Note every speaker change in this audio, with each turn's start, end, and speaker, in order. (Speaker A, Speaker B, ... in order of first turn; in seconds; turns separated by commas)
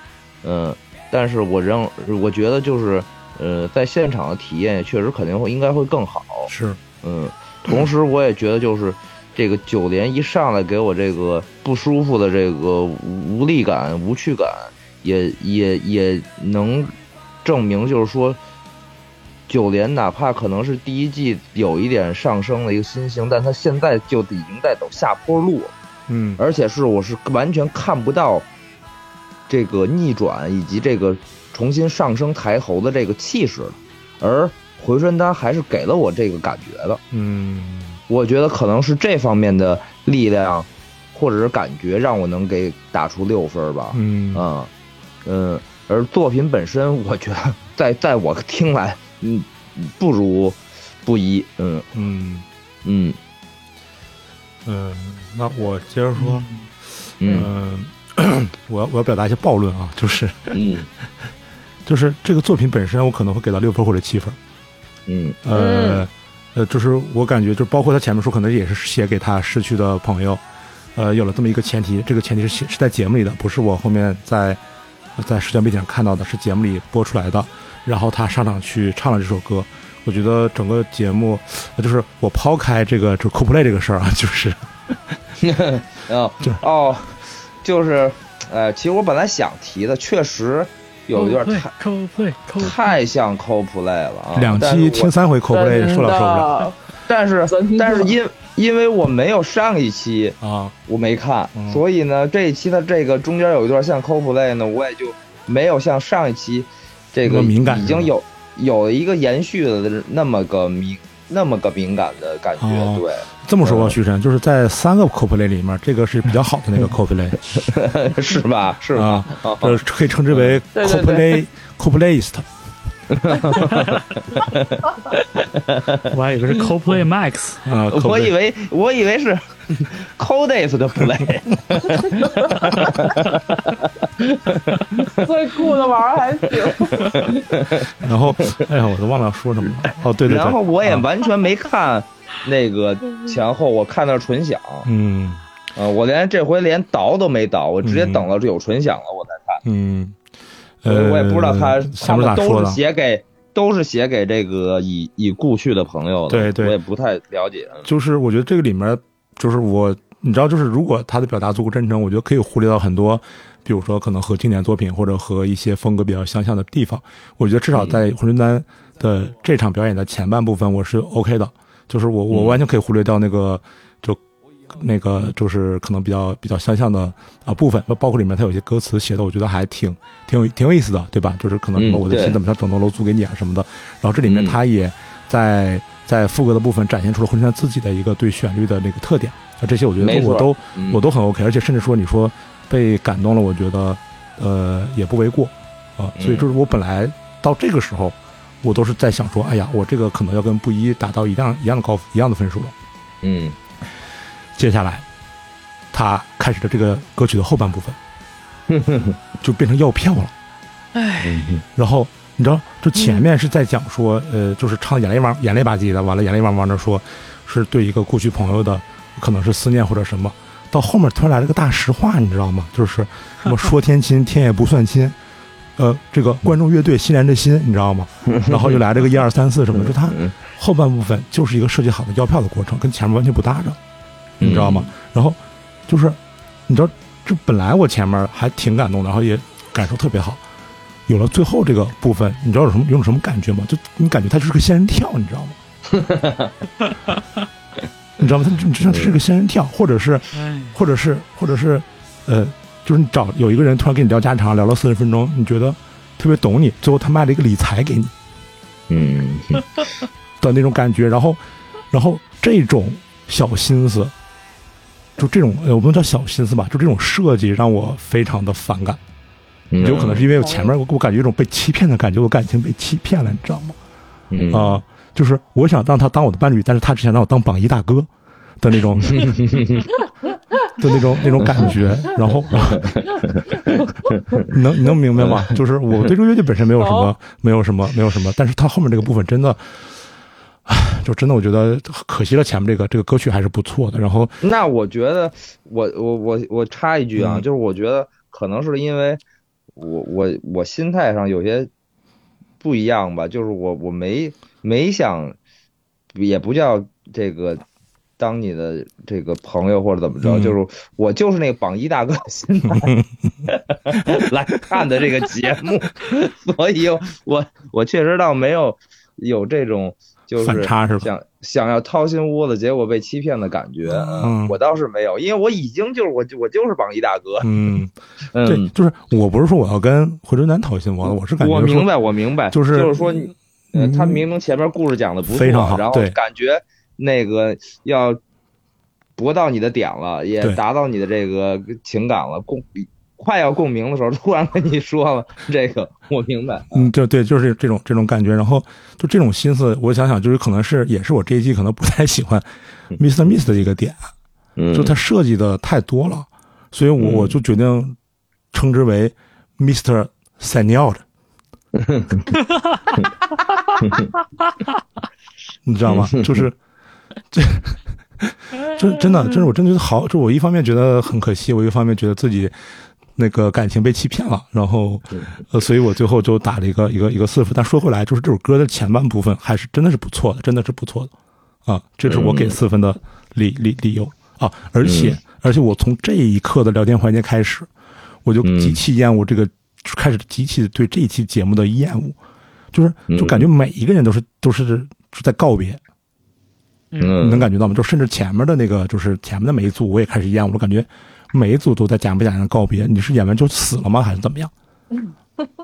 Speaker A: 0.4-6.5, Speaker B: 6.5-6.8, Speaker A: 7.0-16.9, Speaker A: 17.4-18.4, Speaker A: 19.5-25.8, Speaker B: 26.1-26.4, Speaker A: 26.4-28.5, Speaker A: 29.5-37.0, Speaker B: 37.1-38.0, Speaker A: 38.1-44.7, Speaker B: 43.9-44.4, Speaker A: 45.2-51.9, Speaker B: 51.9-52.5, Speaker A: 52.8-53.2, Speaker B: 54.6-56.5, Speaker C: 56.2-56.7, Speaker A: 57.2-57.5, Speaker B: 57.3-60.6, Speaker A: 60.5-60.9, Speaker B: 61.9-64.4, Speaker A: 65.1-65.4, Speaker B: 65.4-70.4, Speaker D: 65.5-66.1, Speaker B: 71.0-74.6, Speaker B: 75.2-85.2, Speaker A: 85.4-87.1, Speaker A: 87.6-91.7, Speaker C: 91.1-92.9, Speaker A: 92.6-95.1, Speaker B: 94.3-96.7, Speaker D: 95.5-96.8, Speaker A: 97.1-114.0, Speaker D: 97.5-98.1, Speaker B: 100.4-100.8, Speaker B: 101.5-101.8, Speaker B: 107.2-108.1, Speaker B: 112.6-117.7, Speaker A: 117.5-119.8, Speaker B: 118.9-122.5, Speaker A: 120.3-120.6, Speaker D: 120.8-121.4, Speaker A: 123.1-126.1, Speaker C: 126.1-127.6, Speaker B: 127.6-128.3, Speaker A: 127.9-135.1, Speaker D: 132.2-132.9, Speaker D: 135.0-137.4, Speaker A: 136.6-138.6, Speaker B: 137.9-141.1, Speaker A: 140.2-144.9, Speaker B: 144.9-145.4, Speaker A: 145.8-149.6, Speaker B: 147.8-148.3, Speaker B: 149.6-150.2, Speaker B: 150.8-152.8, Speaker A: 150.9-157.9, Speaker B: 156.3-156.8, Speaker B: 157.8-202.8, Speaker A: 167.7-168.0, Speaker A: 172.3-172.6, Speaker A: 181.8-182.4, Speaker A: 184.2-184.6, Speaker A: 190.0-191.0, Speaker A: 196.2-196.5, Speaker A: 203.2-203.6, Speaker B: 204.6-205.1, Speaker B: 205.9-208.0, Speaker A: 208.7-209.2, Speaker B: 209.4-210.3, Speaker C: 210.9-211.4, Speaker A: 211.2-211.6, Speaker B: 211.7-225.2, Speaker C: 212.9-213.3, Speaker B: 225.8-233.8, Speaker A: 228.3-228.8, Speaker A: 229.7-230.3, Speaker B: 234.4-240.4, Speaker A: 234.4-234.9, Speaker B: 241.1-245.6, Speaker A: 245.9-246.5, Speaker B: 248.2-258.1, Speaker A: 248.9-249.1, Speaker C: 250.3-250.8, Speaker A: 258.9-259.7, Speaker B: 260.4-264.1, Speaker B: 265.2-269.0, Speaker A: 269.7-270.3, Speaker B: 269.8-273.8, Speaker D: 270.4-270.7, Speaker A: 274.3-274.8, Speaker B: 274.5-279.4, Speaker A: 279.1-279.9, Speaker B: 280.8-282.9, Speaker A: 282.5-284.4, Speaker B: 284.4-289.9, Speaker A: 285.2-285.5, Speaker D: 286.8-287.1, Speaker B: 290.7-294.4, Speaker A: 294.4-299.2, Speaker B: 297.2-297.4, Speaker A: 299.8-301.7, Speaker A: 302.6-305.4, Speaker A: 306.1-307.6, Speaker A: 308.2-312.9, Speaker B: 310.2-310.6, Speaker B: 312.7-313.1, Speaker A: 313.5-327.5, Speaker B: 320.4-321.1, Speaker B: 323.9-324.6, Speaker B: 327.4-331.9, Speaker A: 328.3-328.7, Speaker A: 331.0-338.2, Speaker B: 332.5-333.0, Speaker B: 333.7-334.2, Speaker B: 335.3-336.2, Speaker A: 339.2-346.9, Speaker B: 346.7-352.4, Speaker B: 353.0-354.1, Speaker A: 354.6-354.9, Speaker B: 354.7-357.9, Speaker A: 357.0-357.4, Speaker B: 358.5-361.0, Speaker A: 361.8-362.3, Speaker A: 363.8-364.1, Speaker B: 365.6-366.6, Speaker A: 365.9-366.4, Speaker B: 367.3-372.5, Speaker B: 373.1-381.1, Speaker B: 381.7-387.7, Speaker A: 382.1-382.6, Speaker A: 384.8-385.2, Speaker B: 388.2-392.2, Speaker A: 388.4-388.8, Speaker B: 392.7-395.8, Speaker A: 393.1-393.5, Speaker C: 396.9-397.2, Speaker A: 397.0-397.4, Speaker B: 397.2-404.5, Speaker D: 405.0-405.5